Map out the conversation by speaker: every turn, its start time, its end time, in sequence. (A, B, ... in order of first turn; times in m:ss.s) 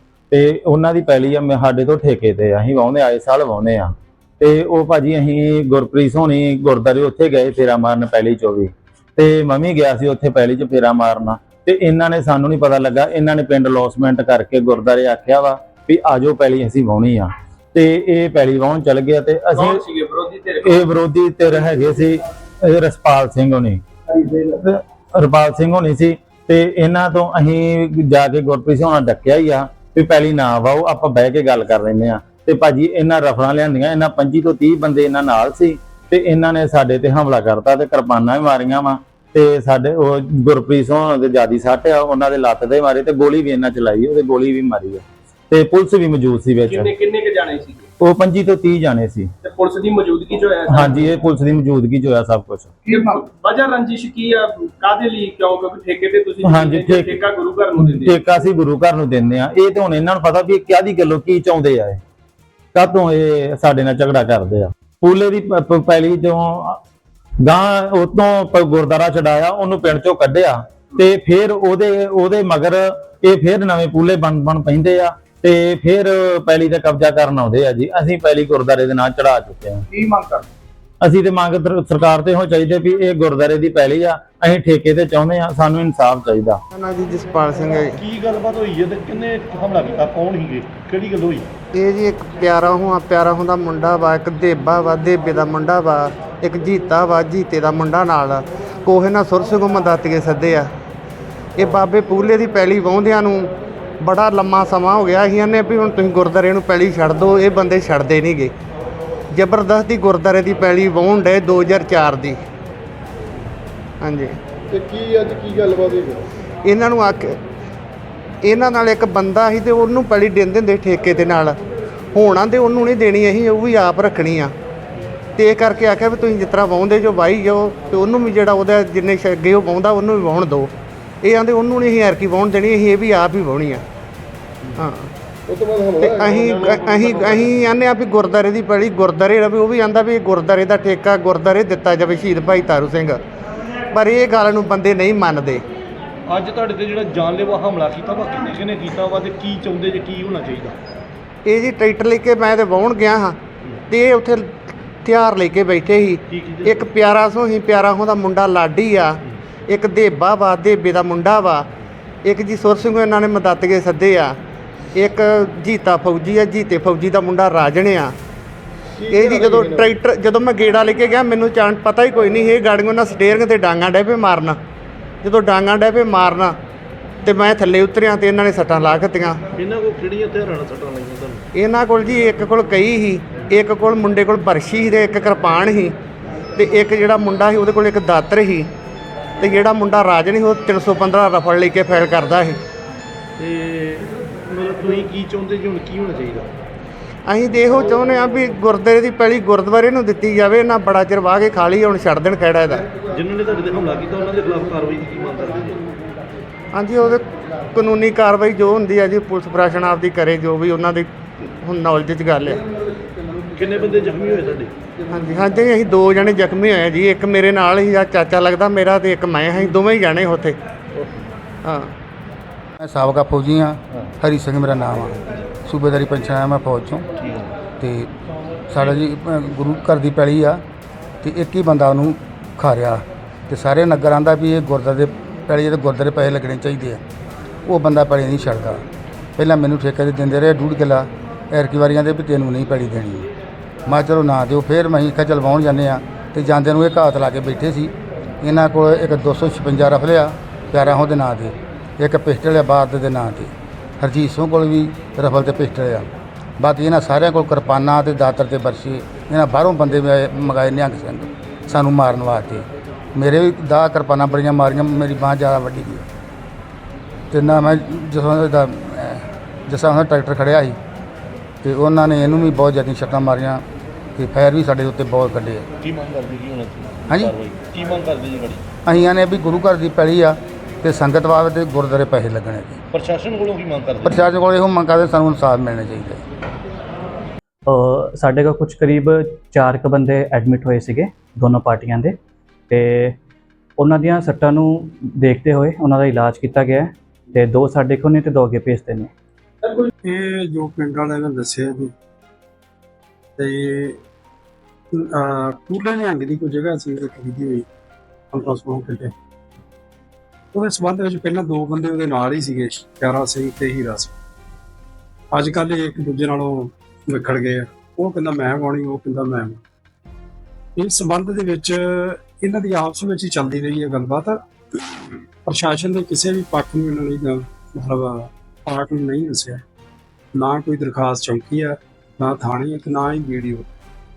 0:00.3-0:19.8 A
0:19.5-0:20.8 B
0:20.6-0:46.9 A
0:46.7-0:47.9 B
0:48.0-0:49.3 A
0:49.4-0:51.1 B
0:50.7-0:52.7 A
0:52.9-0:58.2 B
0:56.4-0:57.2 A
0:57.8-1:02.0 A
1:02.7-1:06.8 A
1:07.4-1:19.8 A
1:20.0-1:20.4 B
1:21.0-1:26.6 A
1:26.7-1:28.0 C
1:28.0-1:31.5 D
1:31.7-1:40.7 C
1:41.6-1:43.5 C
1:44.0-1:48.5 C
1:49.3-1:52.4 C
1:54.0-1:54.4 C
1:54.7-1:56.2 D
1:56.6-1:57.4 C
1:58.4-2:01.6 C
2:02.1-2:04.5 C
2:05.4-2:13.8 C
2:14.8-2:15.1 C
2:15.6-2:17.5 D
2:16.0-2:23.2 C
2:23.9-2:25.6 C
2:26.3-2:30.8 D
2:31.4-2:33.4 C
2:33.9-2:34.5 C
2:35.0-2:41.7 C
2:36.3-2:36.9 D
2:42.2-2:44.4 C
2:44.9-2:48.1 C
2:49.1-2:54.6 C
2:49.2-2:49.9 D
2:55.2-2:56.6 C
2:57.2-2:59.4 C
2:59.6-3:01.4 D
3:01.5-3:06.0 C
3:06.6-3:08.7 C
3:09.4-3:12.6 C
3:13.4-3:16.5 D
3:17.3-3:22.9 C
3:23.1-3:25.8 D
3:26.7-3:32.6 C
3:33.5-3:34.7 D
3:35.1-3:40.6 C
3:41.6-3:41.9 C
3:42.8-3:47.0 E
3:47.2-3:47.5 D
3:47.8-3:48.1 E
3:48.7-3:50.6 E
3:51.2-3:57.0 E
3:57.7-3:58.8 E
3:59.4-4:03.3 E
4:03.8-4:26.0 E
4:27.3-4:30.8 E
4:31.6-4:33.6 E
4:34.2-4:35.7 E
4:35.8-4:38.6 D
4:37.1-4:37.3 E
4:38.9-4:42.8 E
4:42.9-4:44.3 D
4:44.0-4:46.2 E
4:47.7-4:52.2 F
4:52.7-4:53.2 F
4:53.8-4:59.1 F
5:00.0-5:01.9 G
5:03.4-5:04.0 G
5:04.9-5:07.7 G
5:08.3-5:09.1 G
5:10.5-5:14.1 G
5:15.3-5:19.6 G
5:20.8-5:24.4 G
5:25.5-5:29.6 G
5:30.4-5:33.7 G